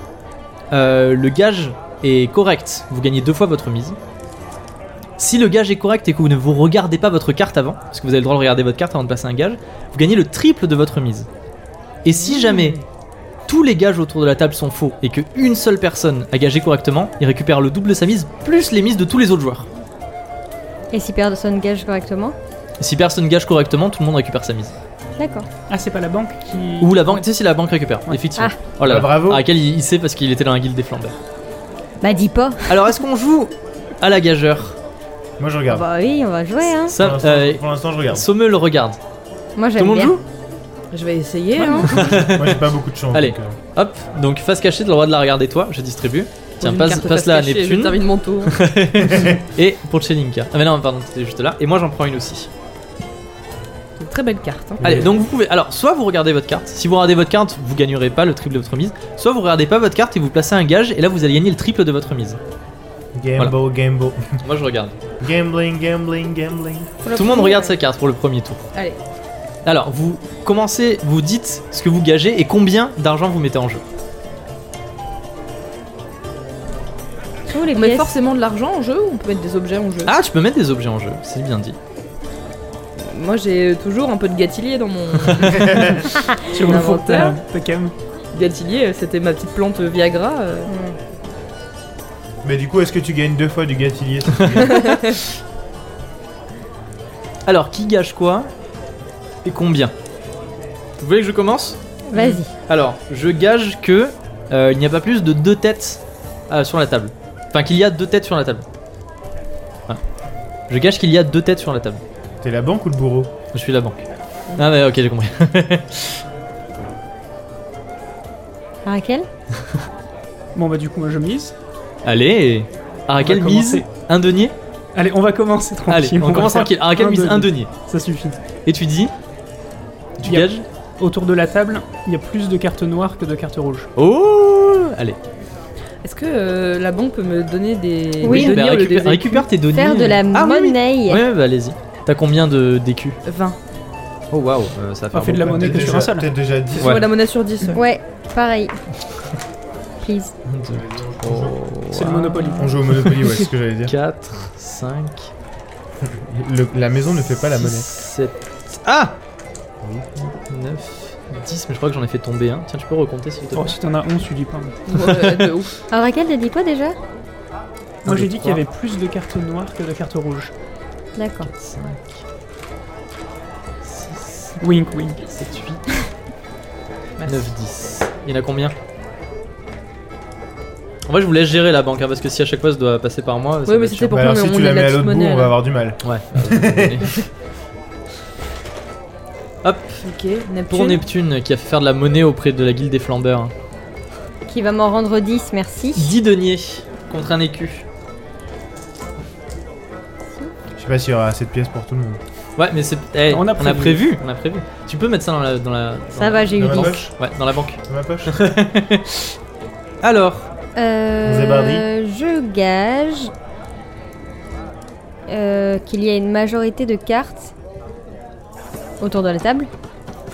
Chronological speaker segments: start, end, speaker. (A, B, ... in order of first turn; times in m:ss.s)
0:00.7-0:04.0 A
0:05.2-0:11.3 A
0:12.0-0:12.8 A
0:12.1-0:12.8 B
0:13.5-0:19.7 A
0:20.9-0:22.4 B
0:22.8-0:24.7 A
0:25.2-0:25.5 B
0:25.7-0:27.2 C
0:26.8-0:31.2 A
0:28.8-0:29.4 D
0:32.0-0:33.0 B
0:32.7-0:34.8 A
0:35.4-0:35.9 D
0:35.7-0:36.9 B
0:36.8-0:39.0 A
0:36.9-0:38.2 D
0:39.6-0:40.1 B
0:39.8-0:40.2 A
0:40.9-0:41.9 E
0:41.6-0:43.6 D
0:41.6-0:52.5 A
0:46.6-0:48.6 E
0:49.0-0:49.4 D
0:54.0-0:54.8 E
0:54.8-0:55.1 D
0:54.8-1:02.4 A
1:03.1-1:04.4 D
1:04.4-1:05.0 A
1:05.2-1:06.9 D
1:07.0-1:07.7 B
1:07.1-1:08.6 A
1:09.6-1:13.8 A
1:17.5-1:18.1 B
1:17.7-1:20.1 E
1:20.0-1:21.8 A
1:23.0-1:27.4 E
1:25.5-1:26.0 D
1:26.5-1:27.9 C
1:28.3-1:30.7 E
1:30.7-1:31.0 B
1:32.4-1:35.0 D
1:34.8-1:35.2 E
1:37.4-1:38.5 A
1:39.4-1:39.9 A
1:41.0-1:41.8 A
1:42.1-1:42.5 B
1:42.1-1:42.4 E
1:42.7-1:48.6 A
1:50.7-1:52.0 A
1:52.4-1:53.3 D
1:53.5-1:56.2 A
1:58.8-1:59.3 B
2:00.5-2:01.5 C
2:02.0-2:04.5 A
2:03.2-2:03.8 C
2:04.9-2:08.4 C
2:05.9-2:07.7 A
2:08.6-2:09.1 A
2:10.2-2:10.6 A
2:10.2-2:13.9 C
2:14.0-2:15.2 A
2:16.0-2:19.5 E
2:18.2-2:18.6 B
2:18.2-2:23.2 A
2:19.7-2:21.2 B
2:23.2-2:23.6 E
2:24.3-2:25.9 A
2:25.1-2:26.3 C
2:25.4-2:27.0 D
2:26.8-2:27.8 E
2:26.8-2:27.1 A
2:27.7-2:28.8 B
2:30.0-2:30.3 B
2:30.5-2:35.3 A
2:30.7-2:31.6 D
2:31.9-2:32.8 C
2:32.6-2:33.9 D
2:36.0-2:37.9 D
2:37.5-2:39.2 A
2:39.8-2:40.1 D
2:40.2-2:43.8 A
2:43.5-2:44.8 C
2:44.9-2:45.7 E
2:44.9-2:45.5 A
2:45.9-2:47.0 B
2:48.0-2:50.5 C
2:48.0-2:48.6 A
2:51.2-2:51.5 B
2:51.4-2:52.1 A
2:53.8-2:54.6 A
2:54.6-2:55.2 C
2:55.2-2:55.8 A
2:57.2-2:57.4 E
2:57.2-2:58.7 A
3:01.1-3:04.2 A
3:03.6-3:05.5 E
3:04.1-3:07.1 D
3:06.0-3:07.2 A
3:09.6-3:10.0 A
3:10.0-3:11.0 E
3:10.7-3:13.5 A
3:14.5-3:16.1 B
3:16.0-3:17.8 A
3:20.8-3:22.2 D
3:22.6-3:29.3 A
3:23.3-3:24.1 C
3:26.1-3:27.0 B
3:26.6-3:27.1 D
3:27.8-3:28.4 D
3:30.0-3:30.5 A
3:30.8-3:33.3 B
3:31.2-3:31.8 D
3:35.3-3:37.5 B
3:39.0-3:39.7 B